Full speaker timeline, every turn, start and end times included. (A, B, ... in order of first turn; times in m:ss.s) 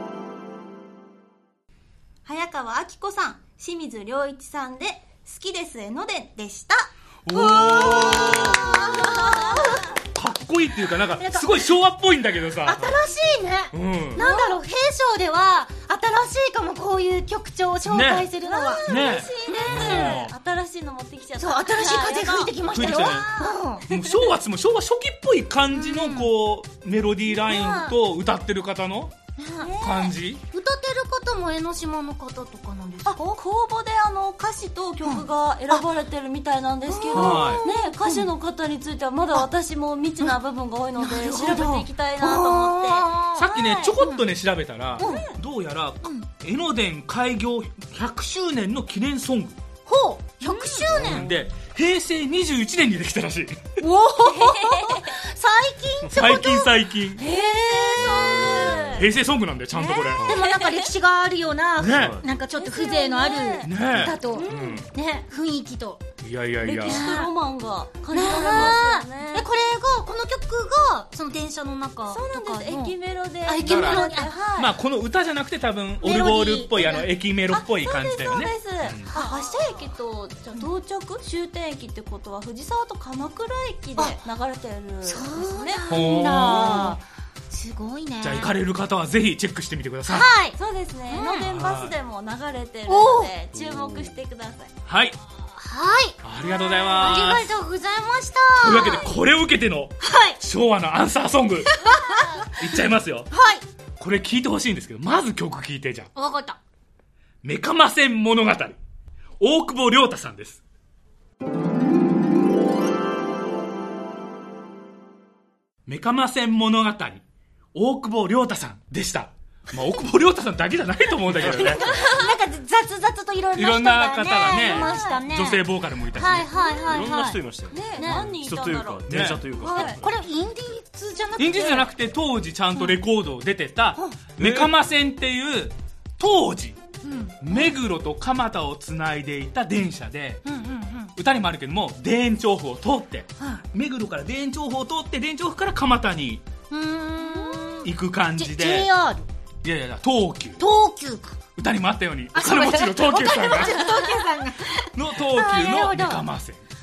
0:02.2-0:06.9 A
0:07.2-0:09.0 B
0:07.3-0:09.8 C
0:07.5-0:09.8 A
0:10.1-0:12.8 B
0:11.2-0:11.6 C
0:12.6-0:20.2 C
0:13.7-0:14.2 B
0:14.2-0:14.6 A
0:17.8-0:18.3 B
0:18.4-0:23.6 A
0:18.8-0:20.3 B
0:21.4-0:23.8 C
0:22.7-0:23.3 B
0:23.9-0:29.1 B
0:25.7-0:26.3 C
0:27.5-0:27.8 A
0:27.5-0:27.9 C
0:29.4-0:29.7 C
0:29.6-0:30.1 A
0:29.8-0:30.4 B
0:30.5-0:33.4 C
0:33.0-0:43.1 A
0:35.0-0:35.8 C
0:36.9-0:38.3 C
0:37.1-0:37.6 B
0:41.0-0:44.2 C
0:43.4-0:49.6 B
0:45.0-0:45.3 C
0:45.0-0:45.3 A
0:49.8-0:51.3 C
0:50.4-0:50.8 A
0:50.9-0:51.2 D
0:51.0-0:53.6 B
0:53.8-0:56.8 C
0:54.4-0:55.1 A
0:56.1-0:57.2 B
0:57.2-0:59.1 A
0:58.0-0:58.4 C
0:58.0-0:59.0 D
0:58.9-1:00.2 B
0:59.7-1:00.7 A
1:00.2-1:06.0 C
1:01.8-1:02.2 B
1:01.9-1:02.2 D
1:02.4-1:04.8 A
1:03.6-1:04.8 B
1:04.5-1:04.8 D
1:06.2-1:07.0 B
1:06.6-1:09.5 A
1:06.8-1:07.3 C
1:08.1-1:14.3 C
1:12.1-1:14.8 A
1:13.6-1:14.0 B
1:14.6-1:19.1 B
1:16.0-1:17.1 C
1:17.5-1:27.0 A
1:19.1-1:19.5 C
1:25.0-1:28.5 C
1:25.9-1:27.0 B
1:28.2-1:30.2 B
1:30.1-1:30.6 C
1:30.6-1:34.7 A
1:31.1-1:31.5 C
1:31.4-1:32.0 B
1:32.9-1:33.3 C
1:33.6-1:34.2 D
1:34.9-1:35.2 B
1:35.4-1:39.1 C
1:36.2-1:37.5 B
1:37.0-1:37.2 A
1:38.6-1:41.8 B
1:38.7-1:39.1 A
1:40.0-1:40.4 C
1:41.8-1:42.5 C
1:42.5-1:43.3 B
1:43.3-1:43.6 C
1:44.0-1:46.1 B
1:46.1-1:46.6 C
1:47.4-1:48.8 B
1:49.4-1:50.6 B
1:55.9-1:57.2 B
1:57.7-2:01.9 B
2:01.4-2:02.1 D
2:01.5-2:07.4 C
2:03.5-2:06.5 B
2:04.5-2:05.2 A
2:06.2-2:10.1 D
2:06.6-2:07.0 A
2:07.7-2:09.0 A
2:08.0-2:08.3 C
2:09.1-2:09.4 B
2:09.6-2:11.9 C
2:11.4-2:16.8 B
2:12.7-2:13.0 C
2:14.4-2:14.7 D
2:17.0-2:17.7 C
2:17.4-2:20.4 B
2:20.4-2:21.1 C
2:21.1-2:26.4 B
2:23.4-2:23.6 C
2:26.7-2:29.3 C
2:27.2-2:27.8 A
2:27.8-2:28.9 B
2:29.6-2:30.6 B
2:30.6-2:31.3 C
2:31.6-2:34.0 B
2:32.3-2:36.2 C
2:34.9-2:36.6 B